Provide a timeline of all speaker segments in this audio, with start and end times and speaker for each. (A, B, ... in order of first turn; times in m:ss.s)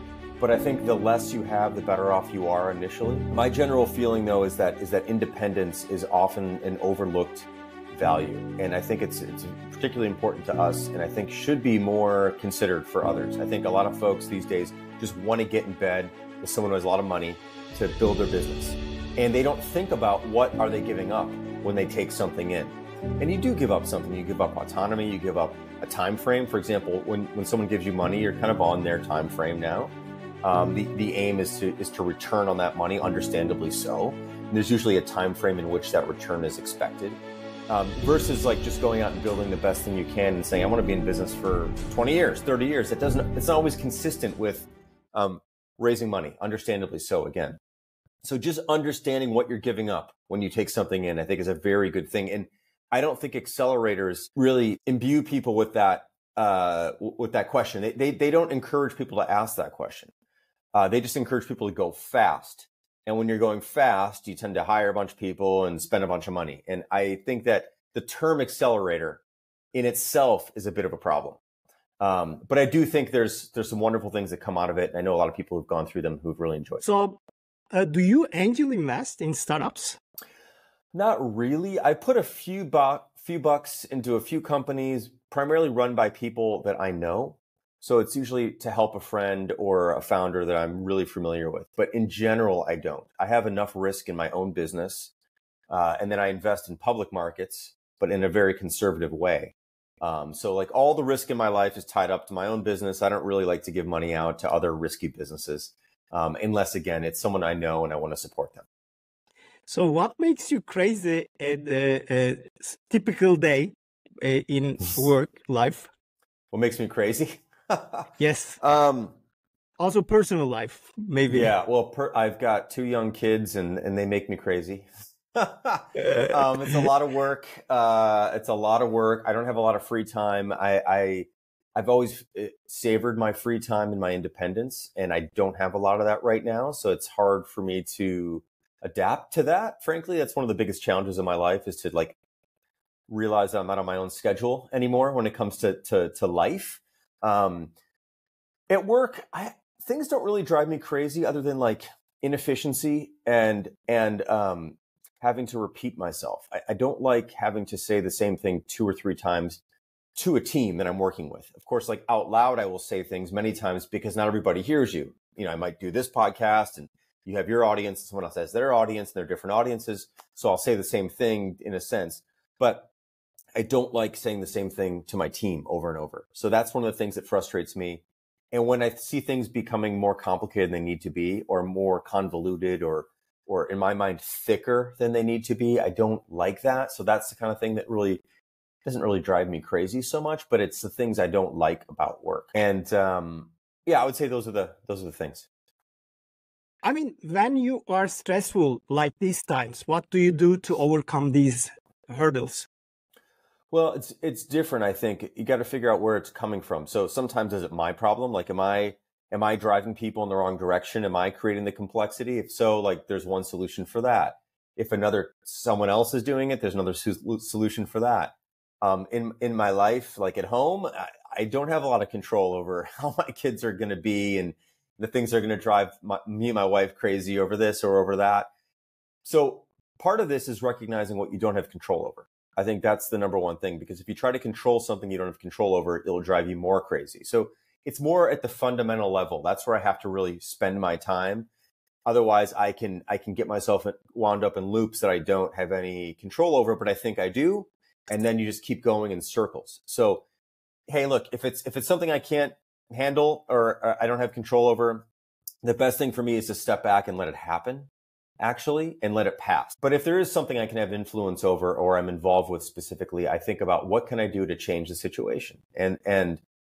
0:00.4-0:47.6 A
0:48.2-1:00.1 A
1:00.7-1:09.2 A
1:09.7-1:11.4 A
1:12.0-1:16.8 A
1:16.8-1:17.2 B
1:17.7-1:20.0 B
1:20.9-1:35.1 A
1:35.7-1:48.7 A
1:49.7-1:55.9 B
1:56.5-1:58.1 A
1:58.2-1:58.6 B
1:58.6-1:59.2 A
1:59.8-2:01.5 B
2:01.3-2:22.2 A
2:23.1-2:27.7 A
2:28.7-2:39.6 A
2:40.2-2:52.9 A
2:53.6-3:08.2 A
3:08.8-3:15.5 A
3:16.8-3:22.7 B
3:23.7-3:48.5 A
3:49.2-4:01.5 A
4:02.1-4:10.2 A
4:10.9-4:15.1 A
4:15.6-4:26.4 A